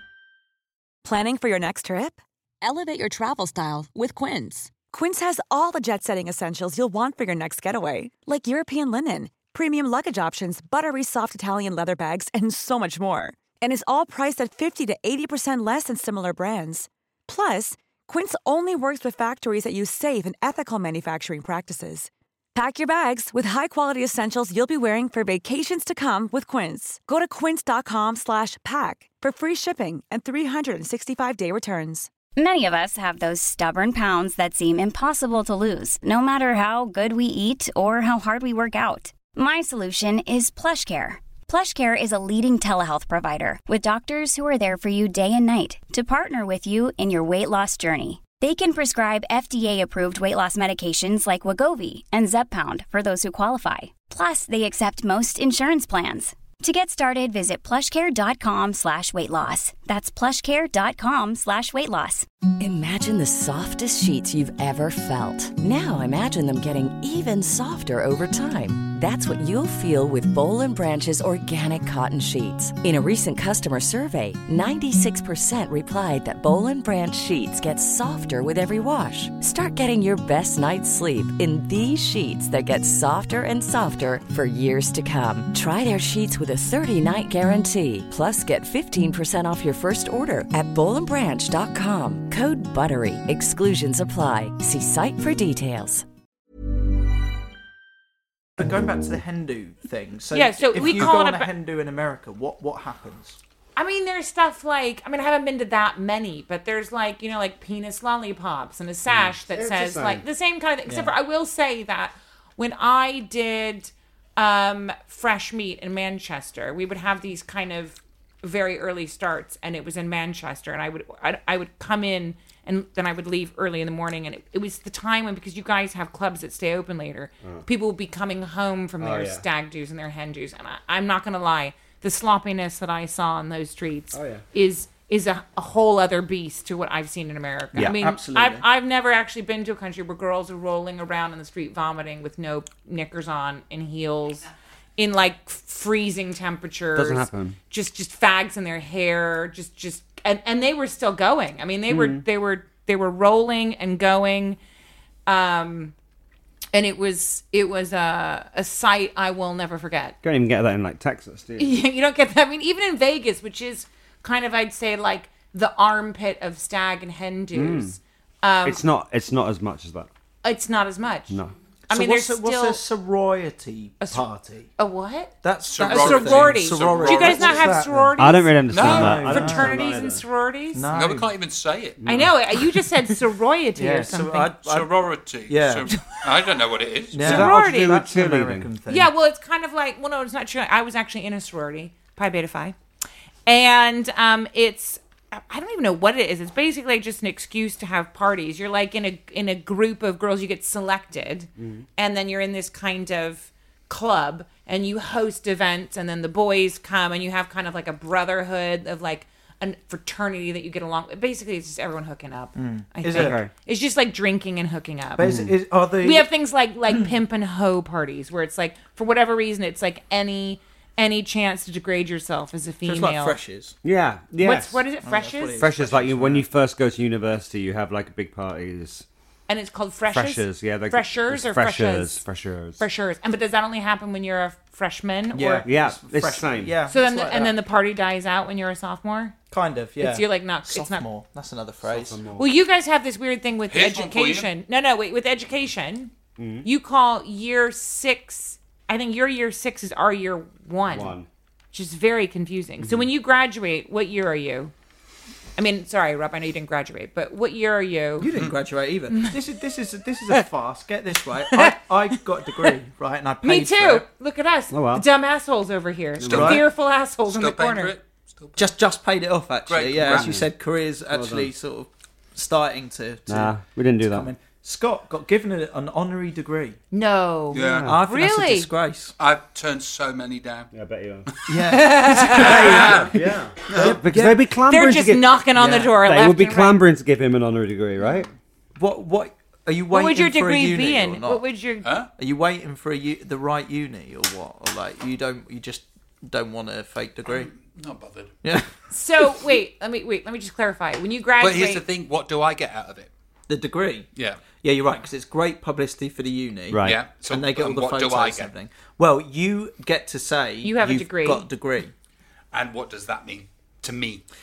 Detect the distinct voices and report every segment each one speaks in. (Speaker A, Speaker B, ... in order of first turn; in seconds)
Speaker A: 1.0-32.1
Speaker B: 32.4-62.3
Speaker C: 62.6-96.0
Speaker D: 98.6-103.4, 110.9-111.1, 137.8-138.7, 171.9-174.7, 175.4-178.2, 178.7-179.8, 180.7-181.3, 183.8-184.9, 185.5-185.9, 187.1-189.1, 212.6-213.4, 215.2-216.3, 222.8-223.8, 225.0-226.4, 235.3-237.6, 239.5-242.2, 258.2-264.1, 266.3-266.6, 268.6-276.8, 277.9-279.1, 281.5-284.4, 285.6-285.9, 288.8-291.4, 292.2-297.5, 298.4-299.4, 303.5-311.9
Speaker E: 100.3-101.5, 103.8-154.6, 155.3-155.9, 156.7-160.2, 161.6-168.8, 170.4-171.4, 171.9-172.8, 174.0-174.3, 174.8-180.9, 182.1-184.5, 187.2-188.0, 188.9-192.8, 193.5-215.3, 216.0-223.4, 224.4-225.7, 229.5-232.2, 232.8-235.7, 236.9-239.3, 240.0-241.1, 242.3-246.1, 246.6-251.2, 251.7-254.7, 255.6-258.3, 259.1-259.4, 261.5-262.8, 263.4-267.9, 276.9-278.7, 281.6-283.0, 284.7-286.8, 289.9-291.9, 298.9-301.8, 310.6-311.5
Speaker F: 109.1-110.2, 129.0-129.4, 134.1-134.4, 146.9-147.6, 151.9-152.2, 160.2-161.8, 167.5-168.0, 168.6-170.1, 178.2-180.2, 182.0-182.3, 187.2-188.7, 201.6-201.8, 213.1-213.5, 215.2-215.5, 223.8-224.8, 225.6-229.1, 230.1-232.8, 235.7-236.7, 241.8-242.5, 246.4-246.7, 250.9-251.3, 252.8-253.1, 264.7-265.1, 266.2-266.6, 270.1-270.5, 271.1-271.5, 273.3-274.3, 277.6-278.0, 280.7-281.3, 282.3-288.3, 306.7-307.0
Speaker G: 175.7-177.8, 178.7-179.2, 180.9-182.0, 184.6-187.2, 243.7-244.5, 266.3-266.6, 267.3-268.7, 269.7-270.4, 277.5-277.9, 279.2-280.7, 282.2-283.2, 291.8-292.1, 297.3-298.4, 301.4-303.1, 304.2-304.4, 306.8-308.5, 312.5-314.2